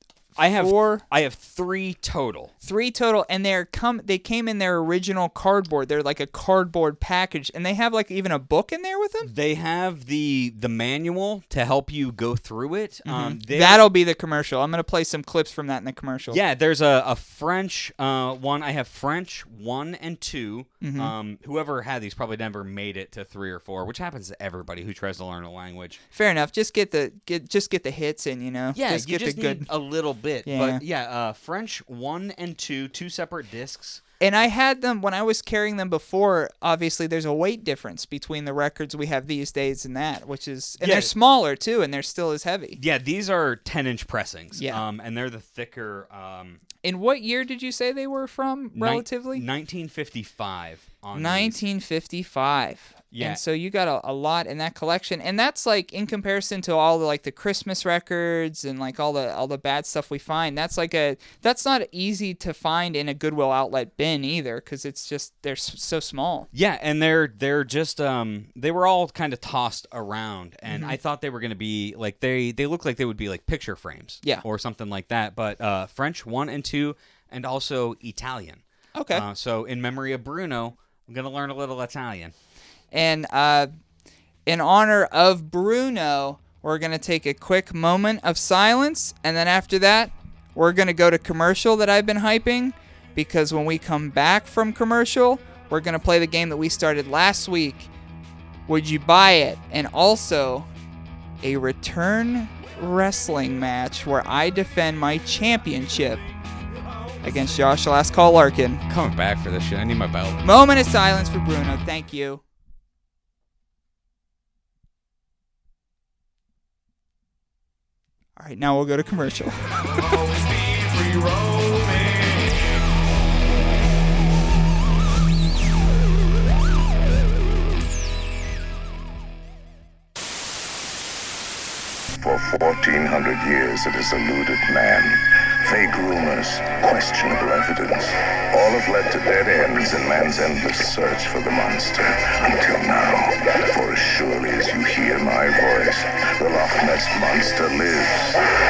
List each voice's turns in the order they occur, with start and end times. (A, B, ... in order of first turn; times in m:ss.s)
0:00.4-0:02.5 A
0:00.6-0:01.0 B
0:02.6-0:09.3 B
0:09.2-0:13.8 A
0:13.0-0:16.4 B
0:16.3-0:26.0 A
0:20.8-0:21.1 B
0:26.1-0:29.7 B
0:28.7-0:34.0 A
0:30.5-0:30.8 B
0:34.2-0:42.8 B
0:40.8-0:41.1 A
0:42.8-0:46.6 A
0:44.6-0:44.8 B
0:46.8-0:49.4 B
0:48.8-0:51.6 A
0:51.1-1:06.5 B
0:53.1-0:53.4 A
1:06.5-1:22.3 A
1:10.7-1:11.0 B
1:19.0-1:19.2 B
1:22.9-1:23.7 B
1:24.5-1:37.9 B
1:38.7-1:40.7 B
1:41.4-1:46.2 B
1:47.2-1:48.8 B
1:48.9-1:50.4 A
1:50.4-1:52.4 B
1:58.4-1:59.6 B
2:12.2-2:28.4 C